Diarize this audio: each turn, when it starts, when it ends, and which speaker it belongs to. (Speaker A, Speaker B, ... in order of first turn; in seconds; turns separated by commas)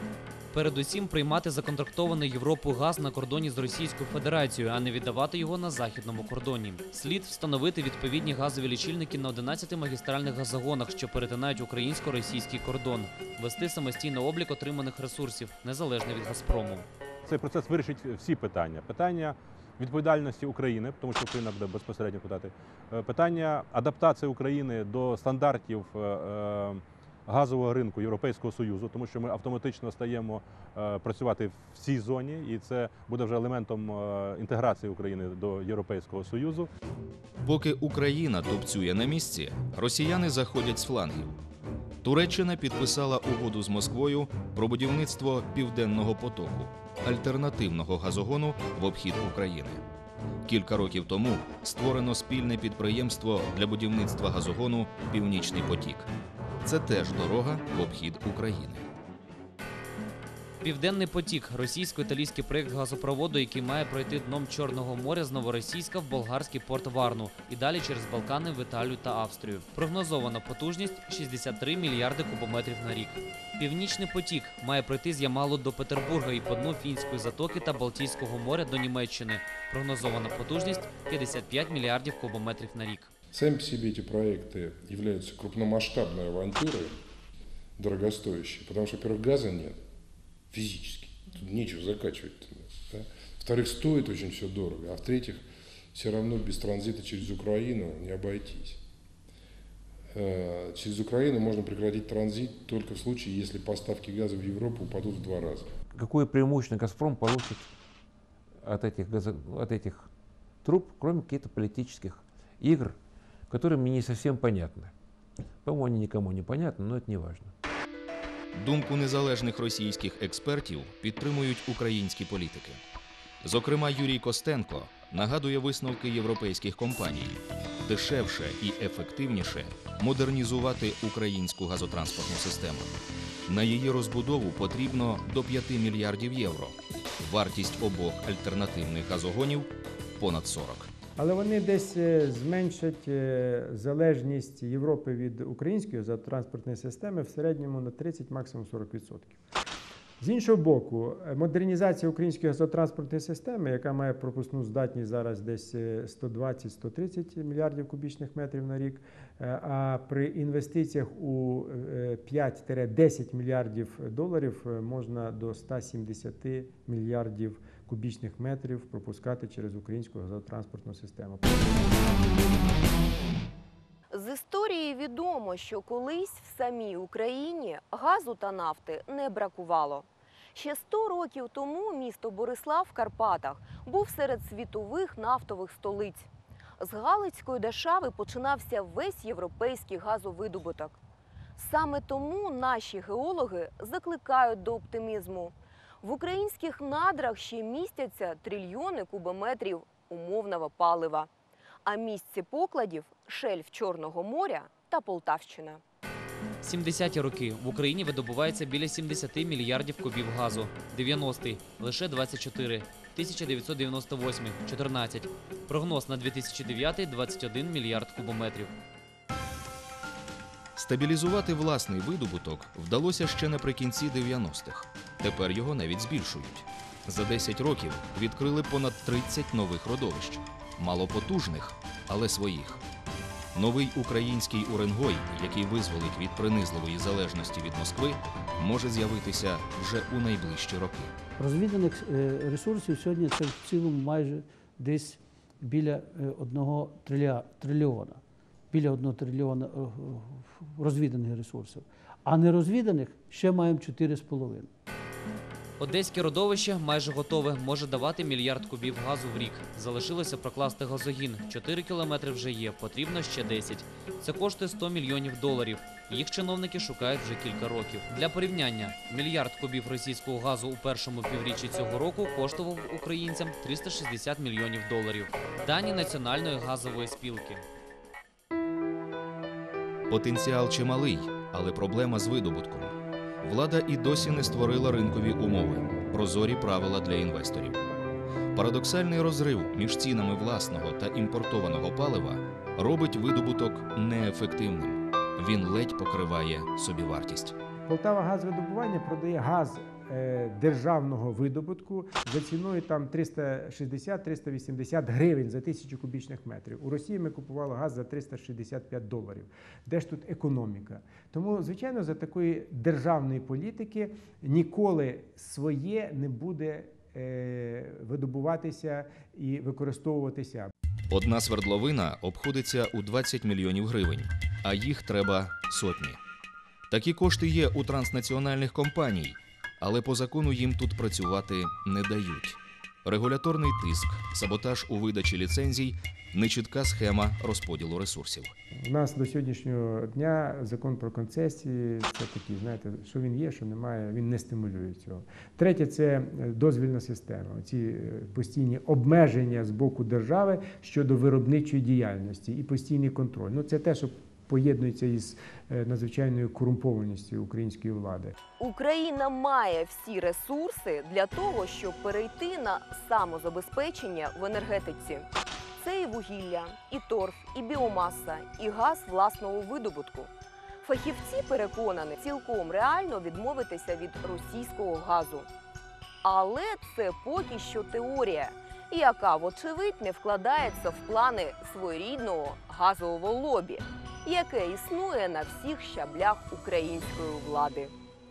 Speaker A: 0.5-16.9, Speaker B: 17.2-36.7, Speaker C: 37.4-41.4, Speaker C: 42.0-49.8, Speaker C: 50.4-56.1, Speaker C: 56.6-58.9, Speaker A: 60.6-83.1, Speaker D: 83.3-87.0, Speaker D: 87.8-89.8, Speaker D: 90.5-98.8, Speaker D: 100.1-105.7, Speaker E: 105.9-107.7, Speaker E: 108.6-110.1, Speaker E: 110.6-114.9, Speaker E: 115.6-117.5, Speaker C: 118.5-122.8, Speaker C: 123.4-132.9, Speaker C: 133.5-140.9, Speaker F: 141.2-149.4, Speaker F: 150.2-172.0, Speaker G: 174.1-191.0, Speaker G: 191.6-201.3, Speaker G: 201.9-205.8, Speaker A: 206.6-218.7, Speaker C: 220.8-232.8, Speaker C: 233.6-241.1, Speaker H: 241.4-248.2, Speaker H: 248.7-254.7, Speaker A: 255.8-277.6, Speaker C: 280.1-287.8, Speaker C: 288.5-297.6, Speaker F: 297.9-320.7, Speaker C: 321.1-326.2, Speaker C: 326.9-338.5, Speaker F: 338.8-358.3, Speaker G: 358.6-370.3, Speaker G: 370.8-375.5, Speaker G: 376.2-387.9